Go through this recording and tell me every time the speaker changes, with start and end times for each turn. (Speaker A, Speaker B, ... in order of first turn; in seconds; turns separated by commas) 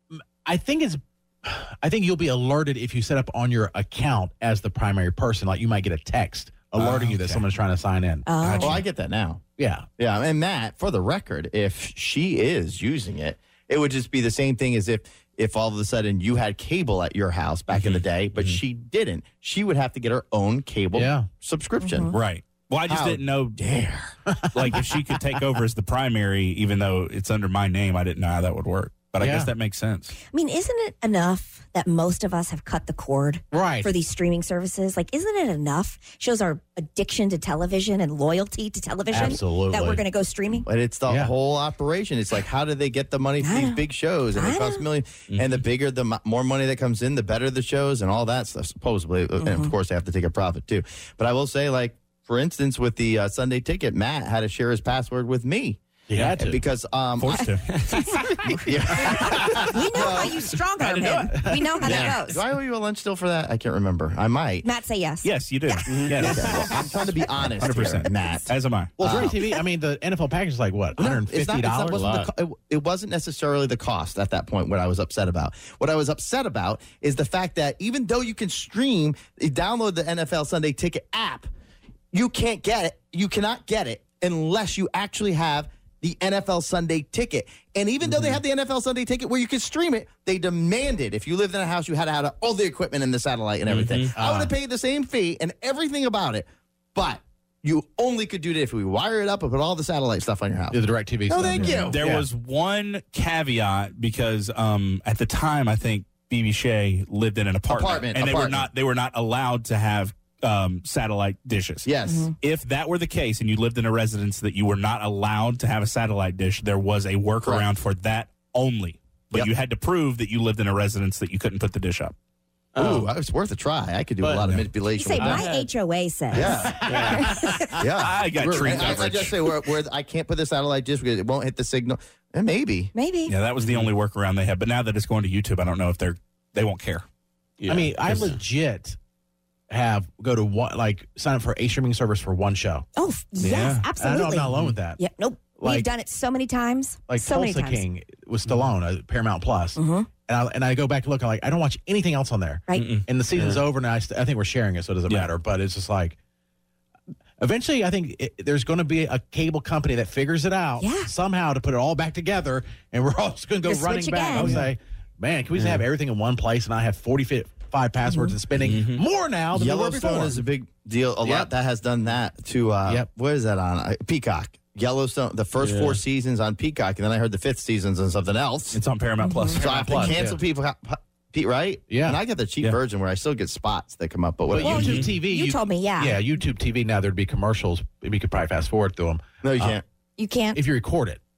Speaker A: 0.1-8.8, Speaker B: 6.7-7.5, Speaker C: 8.2-8.8, Speaker D: 8.5-9.4, Speaker A: 9.6-9.9, Speaker D: 10.0-22.2, Speaker B: 17.7-18.6, Speaker A: 20.9-21.3, Speaker C: 21.8-22.1, Speaker B: 22.1-23.6, Speaker D: 22.9-24.1, Speaker A: 24.3-24.9, Speaker B: 24.5-30.1, Speaker A: 29.2-29.5, Speaker C: 30.3-40.6, Speaker A: 33.5-33.9, Speaker A: 39.1-40.0, Speaker D: 40.6-55.8, Speaker A: 41.1-41.3, Speaker C: 43.4-43.8, Speaker C: 44.3-44.8, Speaker B: 45.3-45.6, Speaker C: 49.4-49.7, Speaker A: 56.1-56.6, Speaker B: 56.1-56.5, Speaker D: 56.4-57.5, Speaker B: 57.2-58.6, Speaker D: 58.5-64.7, Speaker C: 59.0-62.4, Speaker A: 60.9-62.1, Speaker C: 64.6-67.3, Speaker B: 65.2-69.2, Speaker A: 66.0-66.3, Speaker D: 66.1-68.5, Speaker A: 69.0-72.3, Speaker D: 69.0-69.3, Speaker C: 69.2-69.6, Speaker D: 71.0-81.5, Speaker D: 82.1-102.0, Speaker A: 88.1-88.3, Speaker B: 93.7-94.1, Speaker A: 94.1-94.5, Speaker A: 100.7-102.2, Speaker B: 101.6-111.9, Speaker D: 107.7-108.7, Speaker D: 111.8-112.3, Speaker C: 112.0-112.3, Speaker B: 112.4-122.1, Speaker D: 117.4-117.7, Speaker A: 122.7-123.1, Speaker D: 122.8-125.4, Speaker C: 124.9-127.8, Speaker A: 125.2-125.7, Speaker D: 126.3-127.2, Speaker A: 126.3-127.7, Speaker B: 126.9-127.2, Speaker D: 127.8-132.9, Speaker B: 128.0-129.4, Speaker A: 128.3-129.1, Speaker C: 132.9-133.3, Speaker B: 133.3-137.0, Speaker B: 137.6-138.4, Speaker A: 137.7-139.0, Speaker A: 139.7-142.8, Speaker C: 142.9-147.8, Speaker B: 143.4-143.9, Speaker A: 144.0-145.0, Speaker A: 145.6-145.9, Speaker A: 147.1-156.2, Speaker C: 149.8-150.1, Speaker B: 152.7-153.6, Speaker A: 157.4-170.4, Speaker C: 160.8-161.1, Speaker C: 163.6-164.6, Speaker B: 164.3-164.6, Speaker B: 165.6-165.8, Speaker C: 168.1-168.3, Speaker B: 168.6-169.0, Speaker D: 169.5-178.8, Speaker A: 171.2-171.5, Speaker B: 175.6-176.0, Speaker B: 178.7-180.2, Speaker C: 179.2-179.6, Speaker D: 179.5-185.1, Speaker A: 179.6-180.4, Speaker A: 181.9-182.2, Speaker A: 184.5-189.8, Speaker C: 184.6-186.2, Speaker B: 184.7-185.1, Speaker D: 189.4-189.8, Speaker C: 190.2-190.6, Speaker A: 190.5-191.2